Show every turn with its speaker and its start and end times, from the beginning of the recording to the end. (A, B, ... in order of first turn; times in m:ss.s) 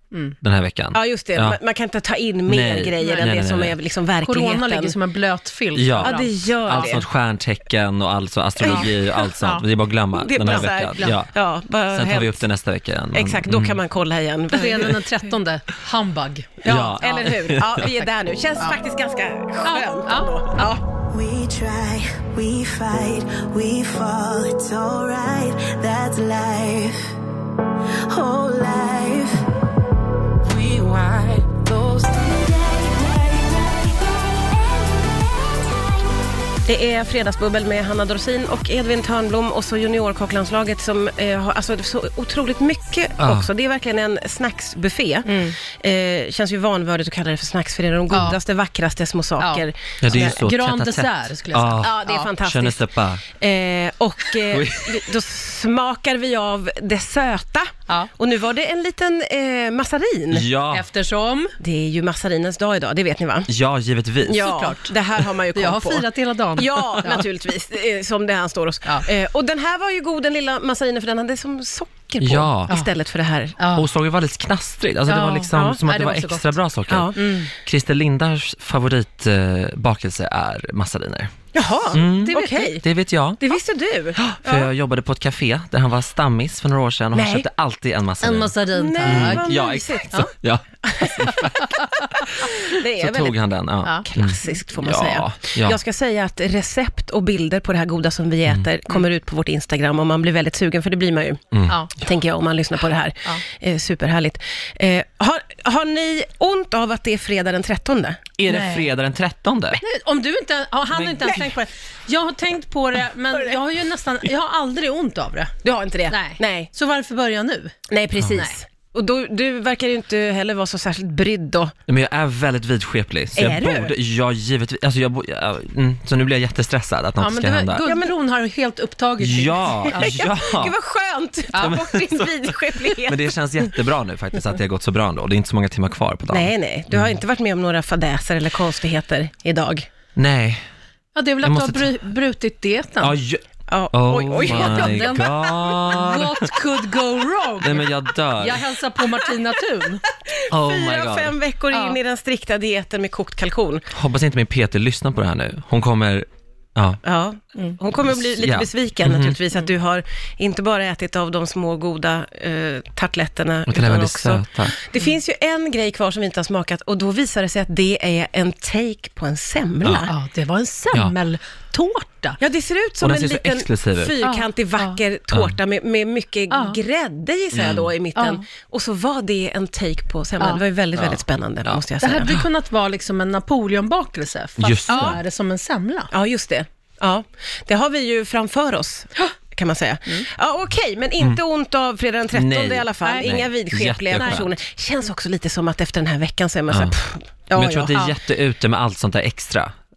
0:00.1-0:00.4 A
0:00.4-0:01.6 B
0:00.9-0:05.0 C
0:02.5-0:03.8 B
0:03.0-0:03.3 A
0:04.2-0:06.9 A
0:05.8-0:11.3 B
0:06.0-0:07.0 C
0:08.6-0:08.9 C
0:08.7-0:09.6 A
0:10.1-0:12.4 C
0:10.5-0:11.1 A
0:11.9-0:13.8 B
0:13.1-0:15.0 C
0:14.5-0:18.1 A
0:16.6-0:20.8 C
0:16.6-0:17.9 B
0:19.6-0:20.3 A
0:20.9-0:27.0 D
0:28.1-0:29.5 D
0:30.4-0:35.6 D
0:36.7-0:50.4 C
0:43.2-0:43.5 B
0:45.3-0:45.5 A
0:48.1-0:48.4 A
0:49.4-0:52.3 A
0:50.0-0:53.2 B
0:51.8-1:00.5 C
0:54.5-0:55.1 B
1:00.3-1:00.9 B
1:00.7-1:01.6 A
1:01.6-1:03.5 C
1:03.5-1:04.5 B
1:04.2-1:13.6 C
1:04.4-1:04.9 A
1:05.6-1:07.2 A
1:12.2-1:12.7 B
1:13.6-1:13.9 A
1:13.7-1:17.1 B
1:15.1-1:16.6 A
1:15.5-1:15.8 C
1:16.9-1:17.3 C
1:17.2-1:17.5 A
1:17.6-1:21.3 B
1:21.5-1:22.8 C
1:21.9-1:23.4 B
1:22.2-1:22.7 A
1:23.4-1:24.7 C
1:24.2-1:31.7 B
1:27.1-1:27.5 C
1:28.2-1:29.5 A
1:28.7-1:30.3 C
1:30.8-1:31.6 C
1:32.4-1:41.4 C
1:33.0-1:35.8 B
1:41.5-1:41.8 B
1:42.0-1:48.2 C
1:48.4-1:49.8 B
1:48.5-1:48.9 A
1:49.8-1:55.5 A
1:50.9-1:51.4 B
1:55.6-1:56.7 C
1:56.1-1:57.8 A
1:57.9-2:01.7 C
2:01.9-2:07.9 B
2:03.4-2:03.9 C
2:07.2-2:10.2 A
2:07.8-2:08.1 C
2:09.2-2:10.8 B
2:09.9-2:13.2 C
2:11.5-2:17.2 B
2:16.3-2:19.9 C
2:20.2-2:20.6 B
2:21.2-2:23.2 A
2:21.4-2:21.9 B
2:23.0-2:26.5 B
2:23.7-2:25.1 C
2:24.4-2:30.0 A
2:27.6-2:28.7 B
2:30.3-2:33.9 C
2:30.5-2:31.4 B
2:31.7-2:32.0 A
2:33.9-2:37.0 B
2:37.0-2:50.1 C
2:38.1-2:39.4 B
2:43.7-2:44.7 B
2:50.1-2:52.4 A
2:52.4-3:02.3 C
2:53.0-2:54.1 B
2:54.2-2:55.0 A
2:56.5-2:56.8 A
2:57.5-2:57.9 B
2:58.2-2:58.4 A
3:01.0-3:02.5 B
3:02.0-3:06.1 A
3:04.6-3:05.2 B
3:04.9-3:05.2 C
3:06.1-3:18.0 C
3:12.3-3:14.6 B
3:13.0-3:13.4 A
3:14.1-3:14.4 A
3:16.7-3:17.0 B
3:17.6-3:19.8 B